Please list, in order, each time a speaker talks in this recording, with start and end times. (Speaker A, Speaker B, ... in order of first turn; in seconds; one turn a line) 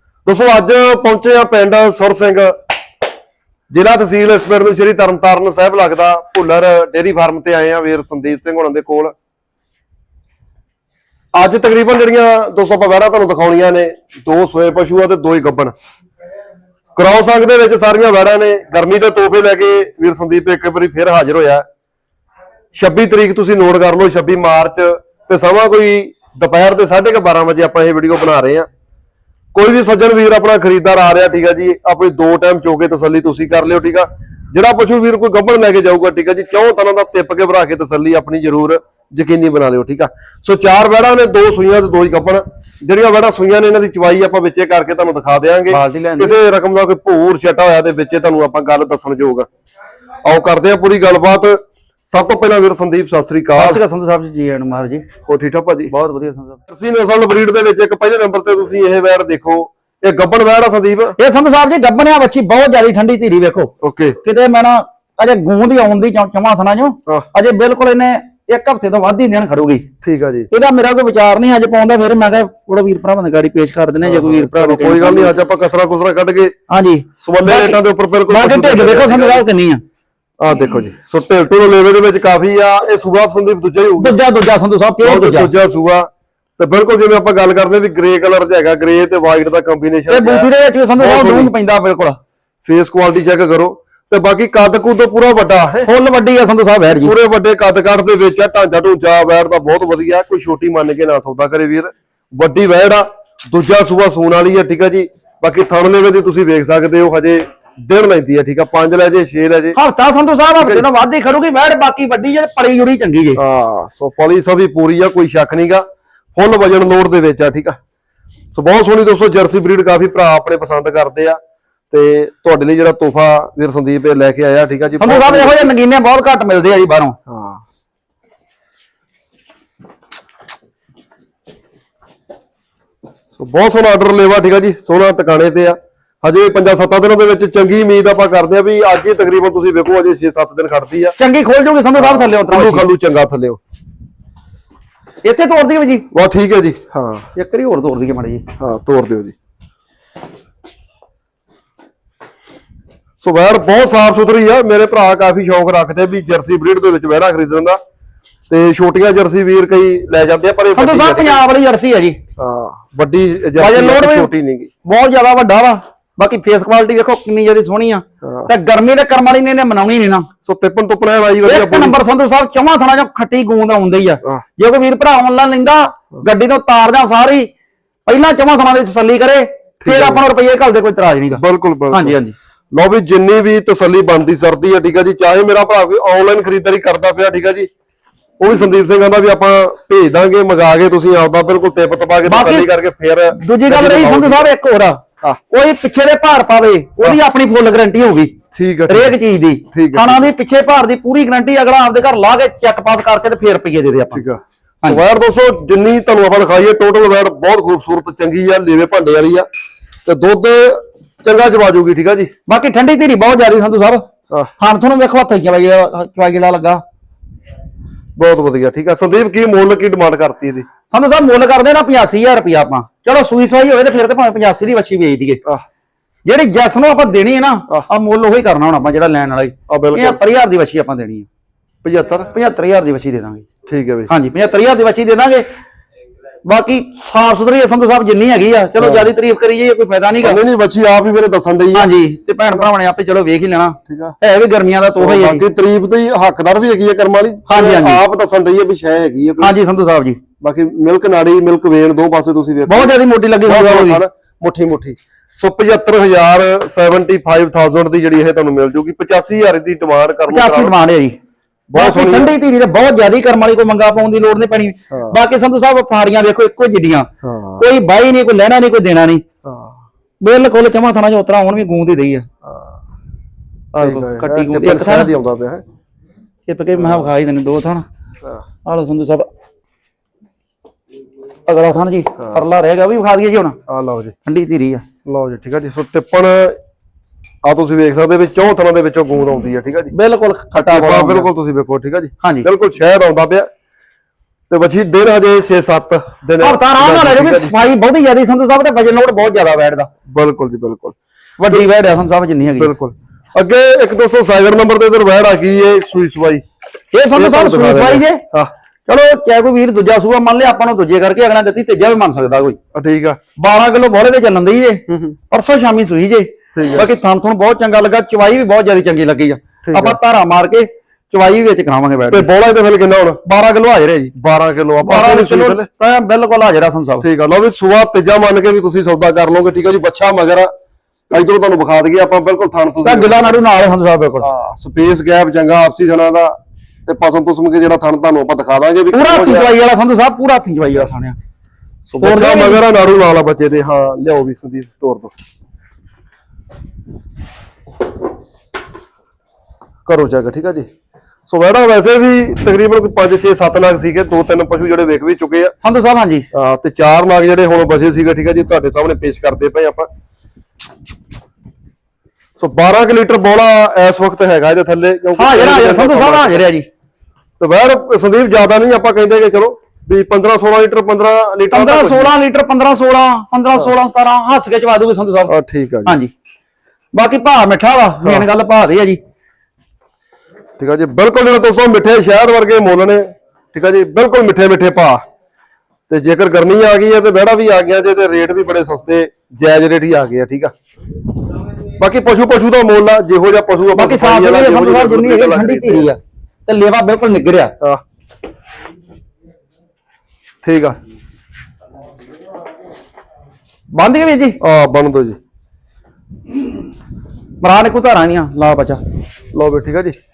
Speaker A: 0.2-2.5
Speaker A: 3.7-9.1
Speaker A: 11.3-15.7
Speaker A: 17.0-21.6
Speaker A: 22.7-28.7
Speaker A: 29.5-49.5
Speaker B: 45.7-46.4
Speaker A: 50.2-53.8
Speaker B: 53.6-55.1
Speaker A: 55.3-55.9
Speaker B: 55.9-56.6
Speaker A: 56.7-61.2
Speaker B: 61.2-63.7
Speaker A: 63.8-64.2
Speaker B: 64.2-69.9
Speaker A: 70.0-70.5
Speaker B: 70.5-75.4
Speaker A: 74.0-76.5
Speaker B: 76.7-79.8
Speaker A: 77.2-79.4
Speaker A: 80.4-84.2
Speaker B: 84.0-85.5
Speaker A: 85.0-91.5
Speaker B: 90.1-92.2
Speaker A: 92.7-95.9
Speaker B: 95.8-97.1
Speaker A: 97.0-109.8
Speaker B: 109.8-113.4
Speaker A: 110.6-110.8
Speaker A: 113.4-117.8
Speaker A: 118.5-121.4
Speaker A: 121.9-125.7
Speaker B: 125.0-127.2
Speaker A: 127.3-127.6
Speaker A: 133.3-141.2
Speaker B: 141.2-142.9
Speaker A: 142.0-143.6
Speaker B: 145.2-146.1
Speaker A: 146.1-147.3
Speaker B: 147.3-148.5
Speaker A: 148.6-149.3
Speaker A: 153.2-157.8
Speaker A: 158.5-161.4
Speaker B: 160.7-162.2
Speaker A: 162.4-164.7
Speaker B: 163.6-164.3
Speaker B: 164.8-170.3
Speaker A: 168.2-168.5
Speaker A: 170.4-172.0
Speaker B: 171.4-177.5
Speaker B: 178.1-181.4
Speaker A: 179.8-180.2
Speaker A: 181.3-182.2
Speaker B: 181.9-182.3
Speaker A: 182.7-187.7
Speaker A: 188.4-194.5
Speaker B: 192.2-192.7
Speaker B: 193.3-198.3
Speaker A: 198.5-199.2
Speaker B: 198.9-204.2
Speaker A: 199.7-200.3
Speaker A: 204.1-209.5
Speaker A: 210.1-212.3
Speaker B: 212.5-214.1
Speaker B: 214.6-216.8
Speaker A: 218.2-220.7
Speaker B: 220.9-225.4
Speaker B: 226.3-231.3
Speaker A: 229.7-230.2
Speaker A: 231.8-232.3
Speaker B: 232.3-233.4
Speaker A: 233.7-234.1
Speaker B: 234.1-235.5
Speaker B: 236.5-240.4
Speaker A: 238.8-239.1
Speaker A: 240.2-241.9
Speaker B: 241.7-245.4
Speaker A: 243.9-244.2
Speaker A: 245.0-249.5
Speaker B: 247.5-248.0
Speaker B: 249.4-250.2
Speaker A: 250.4-260.7
Speaker B: 252.7-254.0
Speaker B: 260.3-261.2
Speaker A: 261.7-262.4
Speaker B: 261.8-269.2
Speaker A: 264.9-265.2
Speaker A: 267.2-267.7
Speaker A: 269.4-269.7
Speaker B: 270.2-272.3
Speaker A: 272.4-272.8
Speaker A: 273.8-275.6
Speaker B: 273.8-275.1
Speaker B: 276.5-277.9
Speaker A: 276.8-277.1
Speaker B: 278.7-279.3
Speaker B: 281.5-283.6
Speaker A: 283.7-284.1
Speaker B: 284.3-284.8
Speaker A: 285.1-286.6
Speaker A: 287.4-289.9
Speaker B: 289.9-291.3
Speaker A: 290.6-293.5
Speaker B: 292.2-292.5
Speaker A: 294.5-297.5
Speaker B: 296.4-299.9
Speaker A: 300.1-301.0
Speaker B: 301.4-302.7
Speaker A: 302.6-306.4
Speaker B: 306.9-308.2
Speaker A: 307.1-308.5
Speaker B: 308.9-312.6
Speaker A: 312.7-313.2
Speaker B: 313.4-322.3
Speaker A: 316.5-316.9
Speaker A: 319.6-320.0
Speaker A: 322.1-323.3
Speaker B: 323.3-324.1
Speaker A: 324.0-325.7
Speaker B: 324.8-327.1
Speaker A: 327.0-330.5
Speaker A: 331.1-333.4
Speaker B: 332.8-334.3
Speaker A: 334.2-339.5
Speaker B: 338.9-341.2
Speaker A: 341.9-345.1
Speaker B: 342.0-342.6
Speaker A: 349.9-350.7
Speaker A: 351.3-355.5
Speaker B: 355.6-356.3
Speaker A: 356.3-359.9
Speaker A: 362.4-366.4
Speaker B: 365.2-366.7
Speaker A: 367.4-372.1
Speaker B: 371.5-375.3
Speaker A: 375.3-376.0
Speaker B: 375.9-376.1
Speaker B: 376.9-379.0
Speaker A: 380.6-385.0
Speaker A: 385.9-390.5
Speaker A: 391.8-395.9
Speaker B: 393.8-397.5
Speaker A: 400.4-400.8
Speaker B: 403.7-404.4
Speaker A: 404.4-405.2
Speaker B: 407.4-408.8
Speaker A: 409.3-410.0